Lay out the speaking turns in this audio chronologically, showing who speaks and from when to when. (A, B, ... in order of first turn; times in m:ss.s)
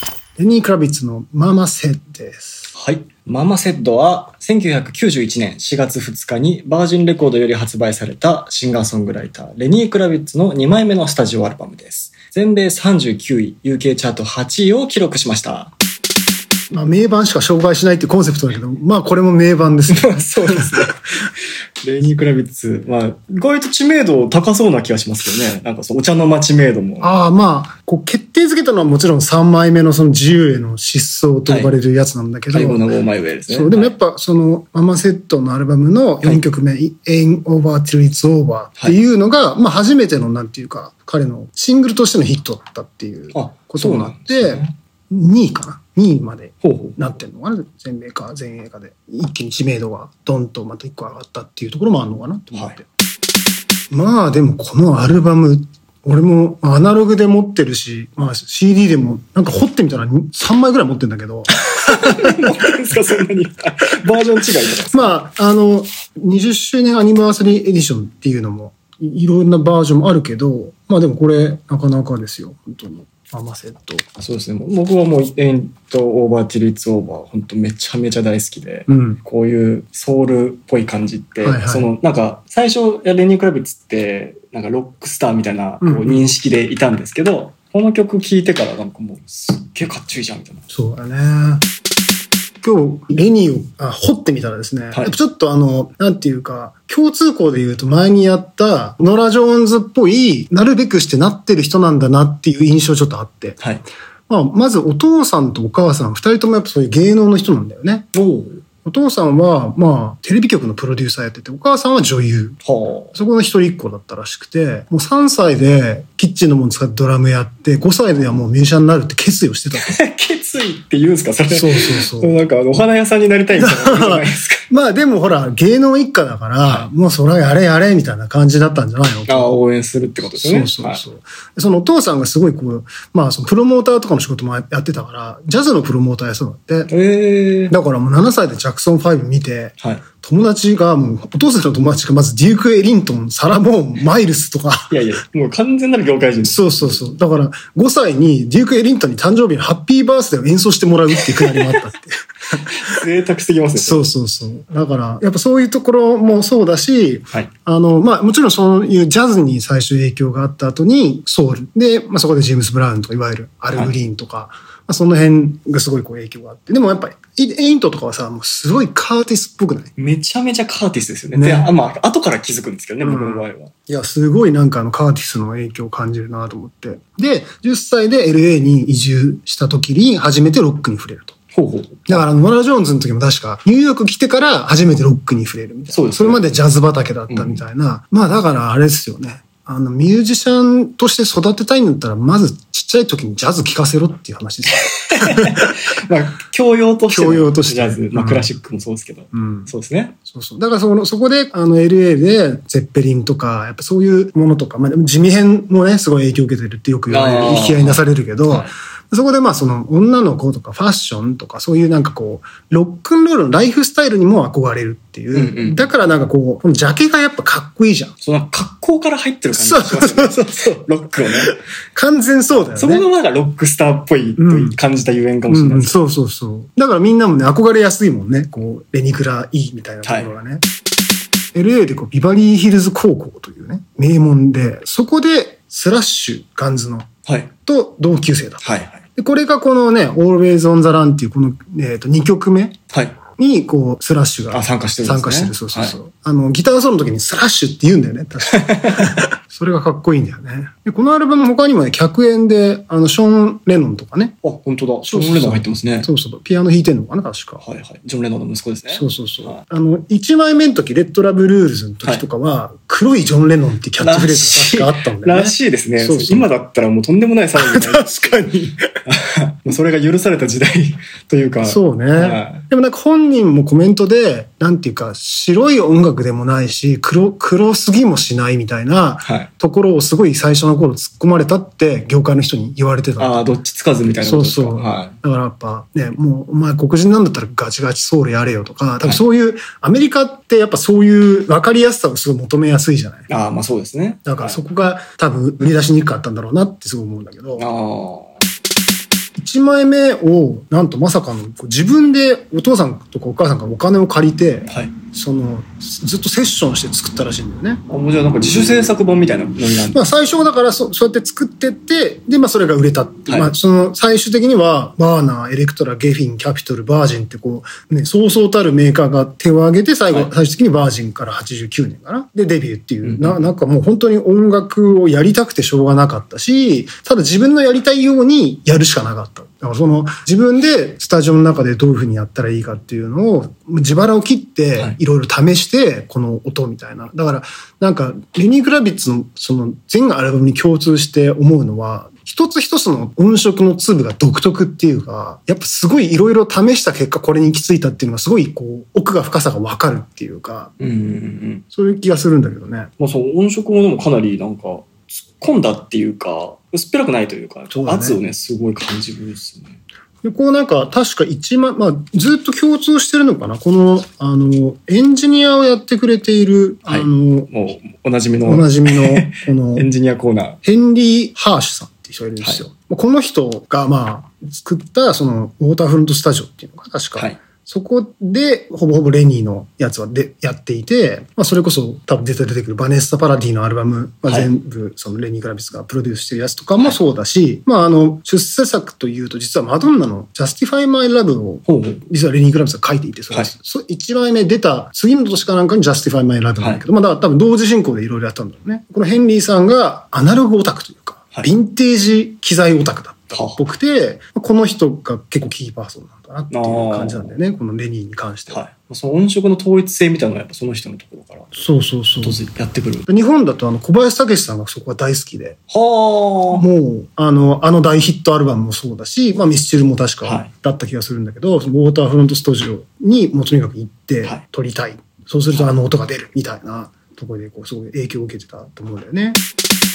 0:00.4-0:02.7 A
0:02.7-0:15.7 B
0:16.7-0:20.8 A
0:19.9-0:21.0 B
0:21.8-0:27.1 B
0:27.0-0:32.9 A
0:31.5-0:31.7 B
0:32.5-0:33.9 B
0:33.5-0:52.8 A
0:43.3-0:44.7 B
0:46.6-0:47.0 B
0:52.5-0:52.8 B
0:53.9-1:02.5 A
1:01.7-1:05.1 B
1:04.9-1:14.0 A
1:14.2-1:30.6 B
1:18.9-1:19.2 A
1:21.4-1:21.9 A
1:25.8-1:26.2 A
1:30.7-1:31.6 A
1:32.6-1:43.6 A
1:44.3-1:48.1 A
1:48.1-1:48.6 B
1:48.8-1:52.6 A
1:52.6-1:53.1 B
1:53.1-2:00.0 A
1:59.8-2:04.6 B
2:01.5-2:02.3 A
2:03.5-2:09.5 A
2:06.6-2:06.9 B
2:09.3-2:11.0 B
2:10.3-2:16.9 A
2:16.9-2:17.7 B
2:17.7-2:24.9 A
2:24.9-2:27.1 B
2:26.4-2:33.0 A
2:32.8-2:34.1 B
2:33.8-2:49.9 A
2:50.0-2:53.7 B
2:51.3-2:51.7 A
2:53.0-3:01.4 A
3:01.5-3:02.2 B
3:02.1-3:15.7 A
3:05.9-3:06.4 B
3:07.3-3:07.6 B
3:14.9-3:20.1 B
3:17.1-3:18.5 A
3:19.3-3:19.7 A
3:20.3-3:38.1 A
3:27.1-3:28.7 B
3:35.3-3:35.9 B
3:38.2-3:41.6 B
3:39.5-3:40.5 A
3:41.2-3:43.1 A
3:42.5-3:46.0 B
3:44.4-3:44.8 A
3:45.5-3:50.6 A
3:50.0-3:50.3 B
3:51.5-3:57.1 A
3:57.2-3:57.5 B
3:57.6-4:02.8 A
3:58.6-3:59.0 B
4:02.9-4:03.2 B
4:03.4-4:14.4 A
4:04.5-4:06.0 B
4:08.5-4:09.3 B
4:14.4-4:16.1 B
4:15.1-4:17.6 A
4:17.6-4:19.6 B
4:18.9-4:26.5 A
4:24.0-4:28.5 B
4:27.5-4:28.8 A
4:29.1-4:32.6 B
4:31.6-4:43.5 A
4:39.2-4:39.5 B
4:43.2-4:45.1 B
4:44.1-4:53.3 A
4:53.3-4:54.6 B
4:54.2-4:57.6 A
4:57.6-4:58.4 B
4:59.4-5:07.8 A
5:04.7-5:04.9 B
5:07.9-5:10.1 B
5:09.9-5:50.7 A
5:13.3-5:13.5 B
5:23.0-5:23.4 B
5:50.8-5:51.6 B
5:51.7-5:52.9 A
5:53.0-5:59.8 B
5:57.7-5:58.2 A
6:00.2-6:07.5 A
6:06.9-6:10.6 B
6:08.4-6:09.9 A
6:10.6-6:48.6 A
6:31.7-6:32.0 B
6:43.3-6:43.6 B
6:46.5-6:47.4 B
6:48.5-6:51.5 B
6:51.5-6:52.4 A
6:52.2-6:53.0 B
6:53.1-6:55.6 A
6:55.7-6:56.6 B
6:56.5-7:09.4 A
7:00.2-7:00.5 B